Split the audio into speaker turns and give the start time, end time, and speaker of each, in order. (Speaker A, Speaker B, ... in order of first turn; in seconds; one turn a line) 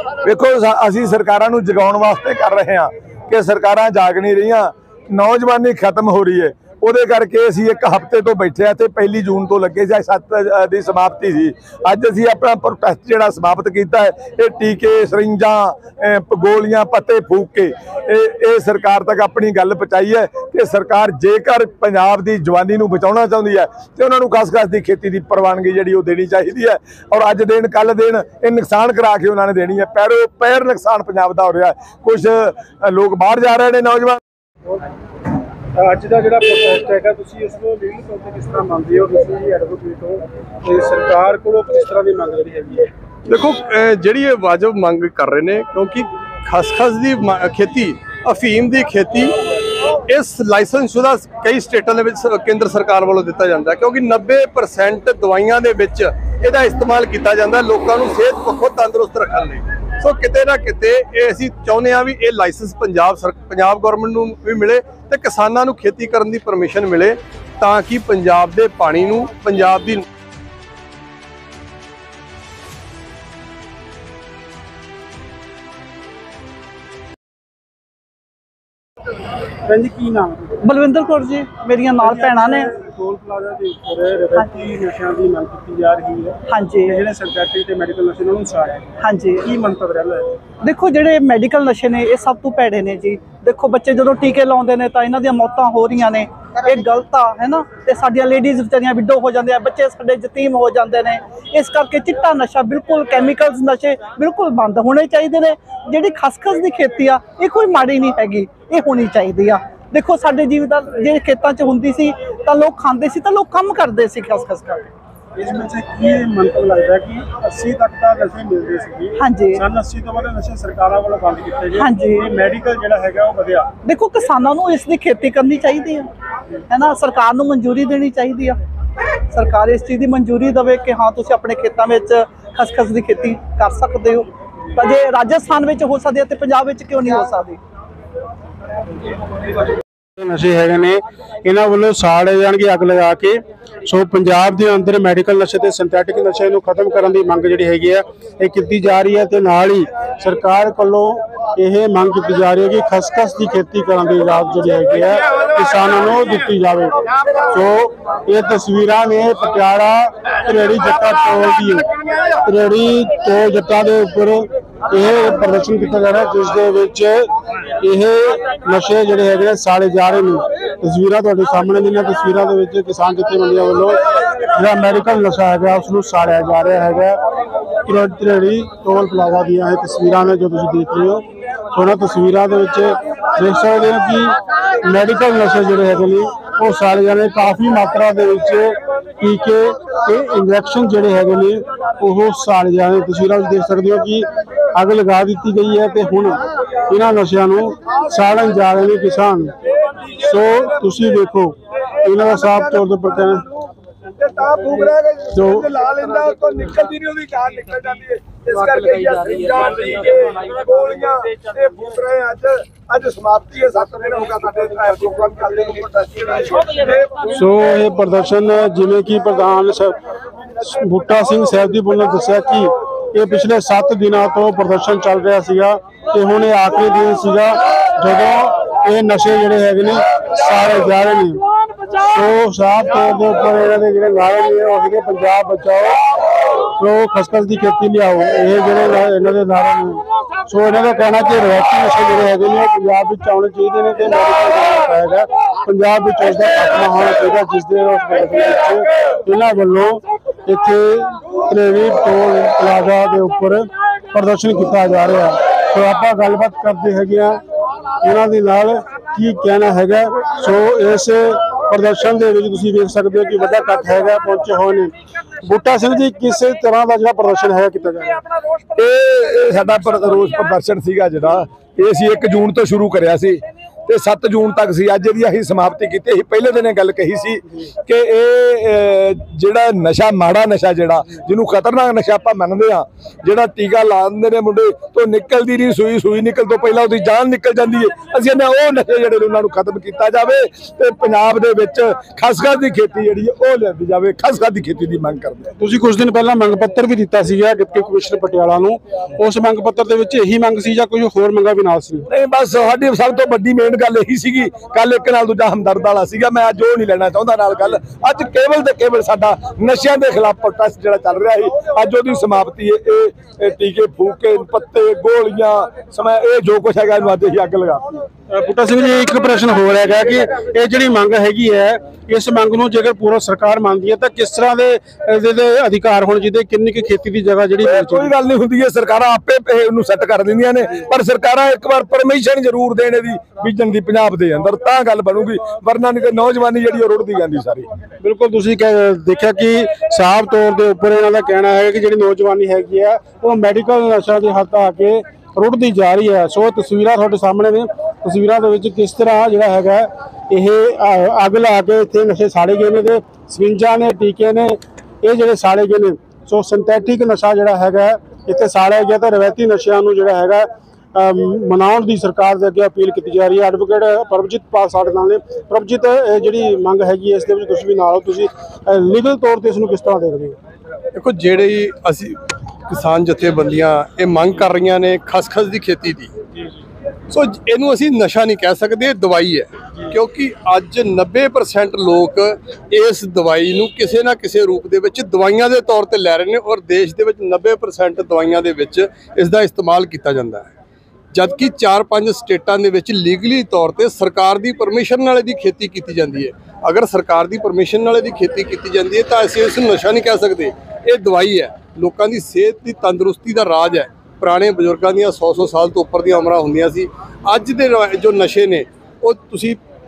Speaker A: 0.2-34.2
Speaker B: 35.8-42.9
Speaker C: 43.3-70.0
Speaker B: 79.7-80.6
Speaker D: 80.6-82.7
Speaker B: 82.0-90.3
Speaker D: 86.5-87.0
Speaker D: 89.0-89.5
Speaker D: 90.6-114.9
Speaker B: 115.4-123.7
Speaker D: 119.2-119.6
Speaker D: 121.8-122.2
Speaker D: 123.8-126.1
Speaker D: 126.7-128.6
Speaker D: 129.3-137.6
Speaker B: 140.2-156.9
Speaker B: 157.5-161.9
Speaker B: 162.4-177.2
Speaker B: 177.8-199.6
Speaker B: 200.1-203.4
Speaker A: 202.4-203.4
Speaker A: 204.1-217.3
Speaker B: 205.3-205.7
Speaker B: 217.3-220.0
Speaker B: 220.6-236.0
Speaker B: 236.8-257.4
Speaker B: 258.0-268.2
Speaker A: 268.7-295.5
Speaker B: 295.6-302.1
Speaker A: 302.1-317.9
Speaker B: 318.3-328.1
Speaker A: 327.6-337.7
Speaker B: 338.0-370.4
Speaker C: 370.9-376.1
Speaker C: 377.1-390.5
Speaker C: 391.1-409.6